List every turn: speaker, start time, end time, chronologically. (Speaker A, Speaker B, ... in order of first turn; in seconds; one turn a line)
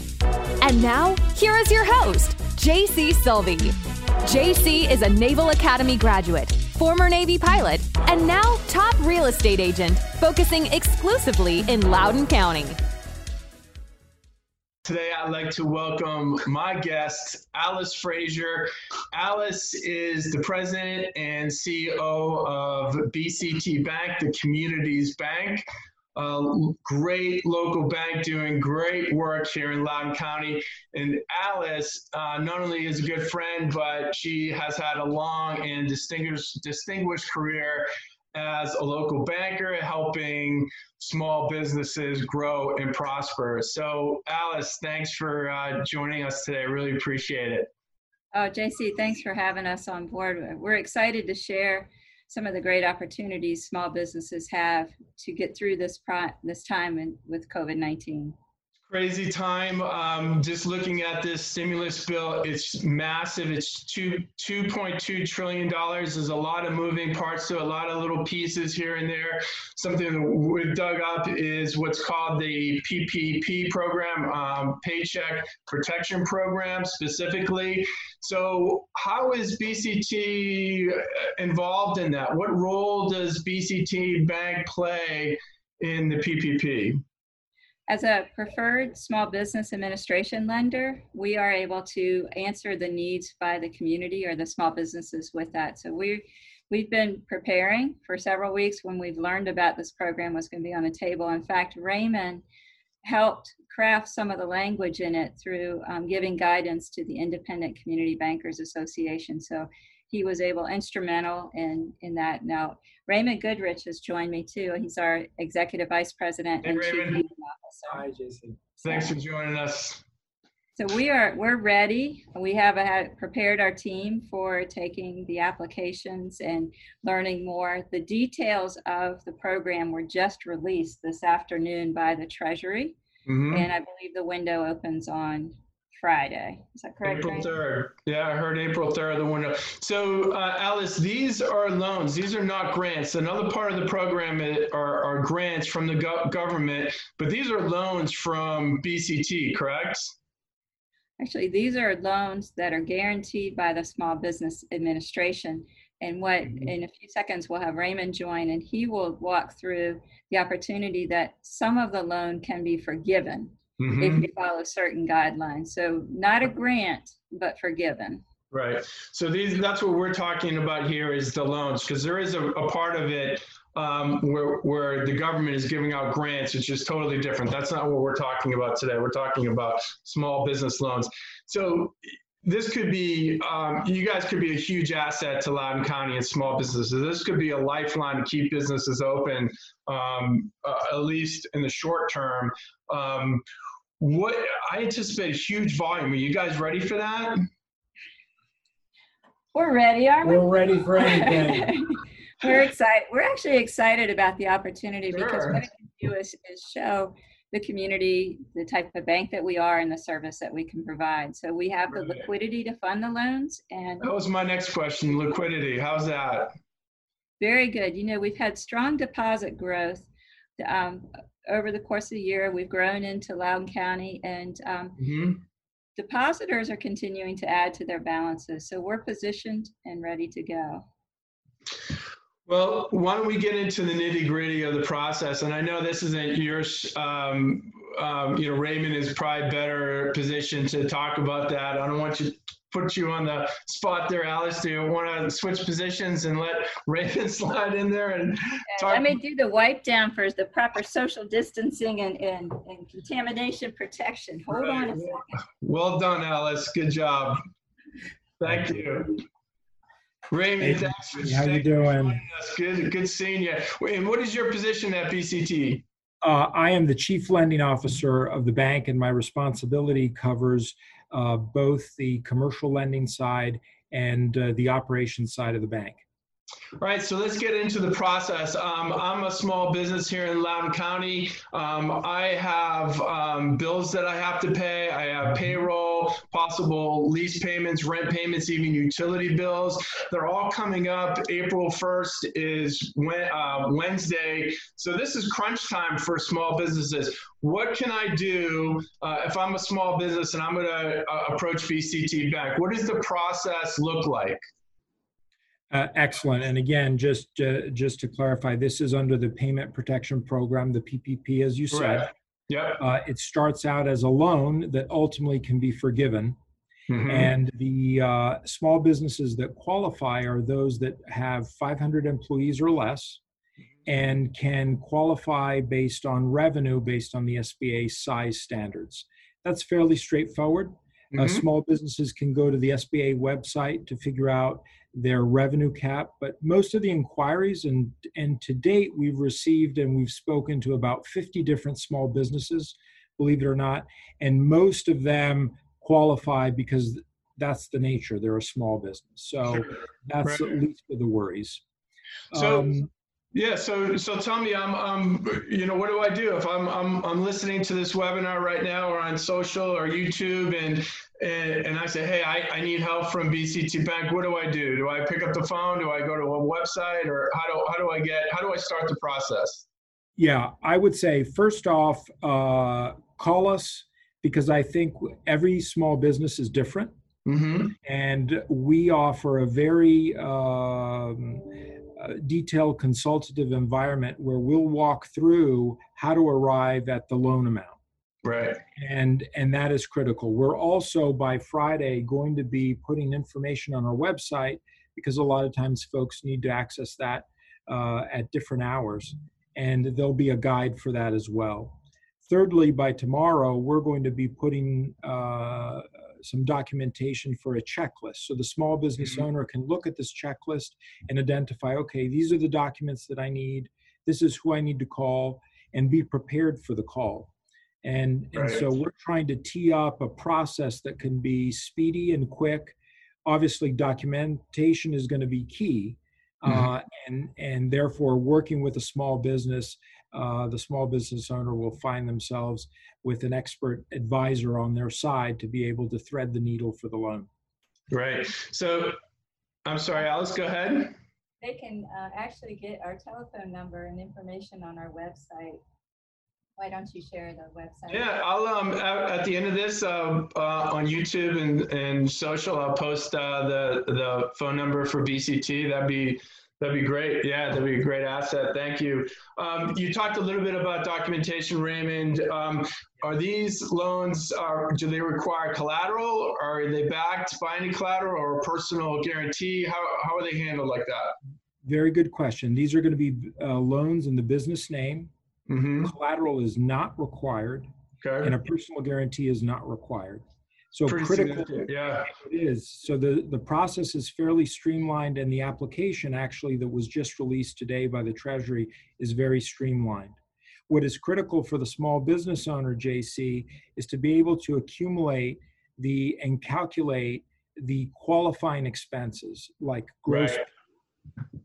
Speaker A: 0.6-12.8
Speaker B: 14.8-47.7
Speaker C: 48.3-58.4
Speaker B: 58.9-87.0
Speaker C: 87.9-102.5
Speaker C: 103.0-118.0
Speaker B: 116.6-117.2
Speaker D: 117.9-118.6
Speaker B: 118.8-120.0
Speaker C: 118.8-119.2
Speaker C: 120.8-133.0
Speaker B: 133.3-133.7
Speaker C: 133.5-137.6
Speaker B: 137.0-150.2
Speaker C: 151.2-168.2
Speaker B: 163.8-164.2
Speaker B: 168.5-193.4
Speaker B: 194.0-197.4
Speaker C: 199.5-214.1
Speaker D: 200.2-201.8
Speaker B: 205.1-205.6
Speaker B: 214.0-216.5
Speaker C: 217.4-225.0
Speaker B: 225.0-225.4
Speaker C: 226.0-230.8
Speaker B: 232.5-249.2
Speaker C: 248.7-255.4
Speaker B: 254.5-257.4
Speaker B: 258.4-259.2
Speaker B: 260.3-265.8
Speaker D: 260.6-262.2
Speaker D: 266.2-276.0
Speaker B: 276.8-304.4
Speaker D: 305.7-312.1
Speaker B: 311.7-312.8
Speaker D: 312.8-316.4
Speaker B: 316.9-317.3
Speaker D: 317.1-323.2
Speaker D: 323.9-351.6
Speaker B: 331.1-331.4
Speaker B: 349.5-350.5
Speaker D: 352.3-352.9
Speaker B: 352.3-352.7
Speaker B: 353.3-369.7
Speaker D: 370.2-376.9
Speaker B: 377.3-377.7
Speaker D: 377.8-387.8
Speaker B: 388.2-388.6
Speaker D: 388.8-417.3
Speaker D: 417.8-437.3
Speaker B: 418.3-418.6
Speaker B: 437.9-438.9
Speaker B: 439.7-440.9
Speaker C: 441.4-445.6
Speaker C: 446.6-448.1
Speaker B: 447.9-471.2
Speaker D: 471.6-475.1
Speaker B: 475.5-475.9
Speaker D: 475.8-477.7
Speaker B: 478.0-478.4
Speaker D: 478.2-490.2
Speaker B: 480.9-482.1
Speaker D: 490.7-500.5
Speaker B: 500.1-500.4